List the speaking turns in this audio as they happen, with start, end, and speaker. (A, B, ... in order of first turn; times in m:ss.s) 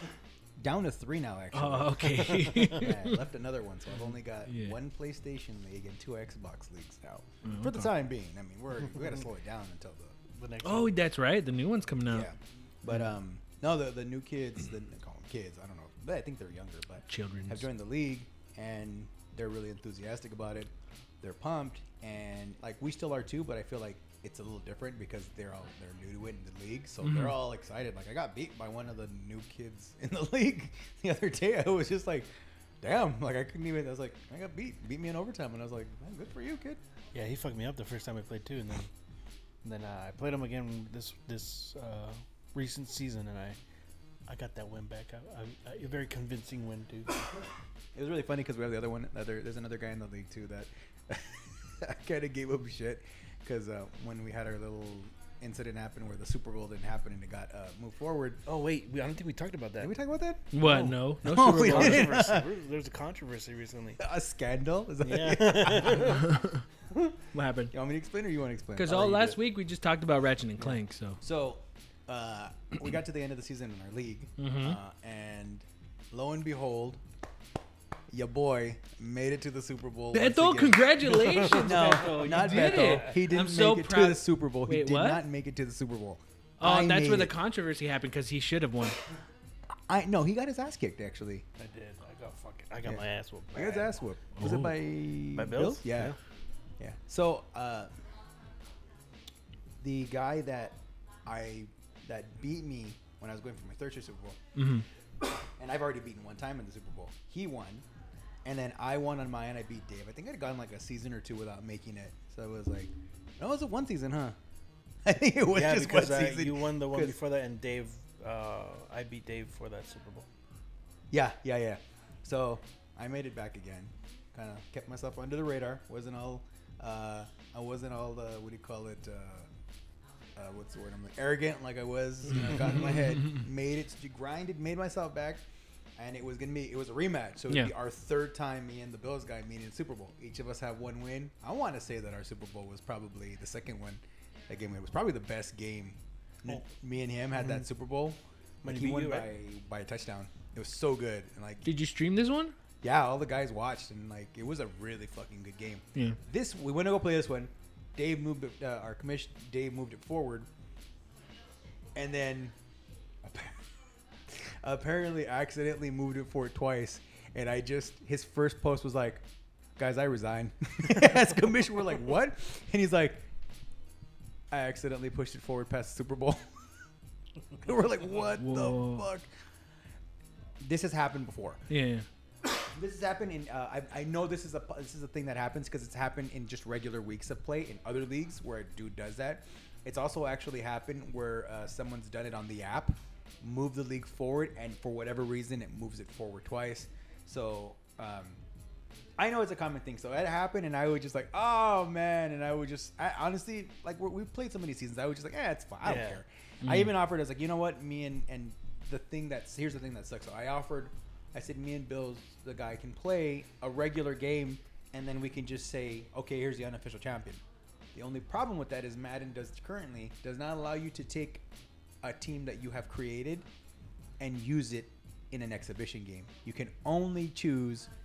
0:00.6-0:10.2 A
0:01.5-0:03.2 B
0:04.5-0:04.8 B
0:07.4-0:07.9 B
0:10.3-0:11.0 C
0:10.6-0:12.3 B
0:12.1-0:32.3 A
0:17.1-0:17.7 B
0:27.0-0:27.4 B
0:32.8-0:36.8 A
0:37.1-0:38.9 C
0:39.6-0:43.6 C
0:44.3-0:47.2 C
0:48.0-0:58.4 A
0:58.5-0:59.9 C
0:59.8-1:00.5 A
1:00.5-1:02.2 B
1:00.6-1:04.0 C
1:01.2-1:02.5 A
1:04.0-1:06.2 A
1:05.0-1:06.3 C
1:06.2-1:06.6 B
1:07.3-1:07.7 B
1:07.7-1:09.3 A
1:08.8-1:11.2 B
1:08.9-1:09.4 C
1:11.2-1:17.0 A
1:14.4-1:14.8 B
1:18.1-1:27.4 A
1:20.1-1:25.2 B
1:21.1-1:23.2 C
1:26.6-1:29.0 B
1:29.9-1:31.4 A
1:31.6-1:33.9 C
1:33.5-1:36.2 A
1:34.4-1:34.8 B
1:35.3-1:36.2 C
1:36.8-1:37.9 A
1:39.8-1:44.4 A
1:44.6-1:44.9 B
1:45.4-1:47.8 A
1:48.4-1:54.4 A
1:55.0-1:57.2 A
1:55.5-2:00.3 C
2:01.1-2:09.5 A
2:10.4-2:15.4 A
2:12.4-2:13.2 B
2:16.0-2:31.7 A
2:28.6-2:29.3 C
2:31.6-2:32.6 B
2:32.8-2:40.5 A
2:42.0-2:42.6 A
2:43.2-2:43.6 A
2:44.3-2:49.2 A
2:49.8-2:53.3 A
2:54.5-2:56.4 A
2:57.6-2:59.3 A
2:58.4-2:59.0 B
3:00.6-3:01.6 A
3:01.7-3:02.1 B
3:02.6-3:18.4 A
3:19.2-3:37.4 A
3:25.8-3:26.2 C
3:26.6-3:26.9 B
3:38.0-3:41.4 A
3:42.0-3:43.5 A
3:44.2-3:47.9 A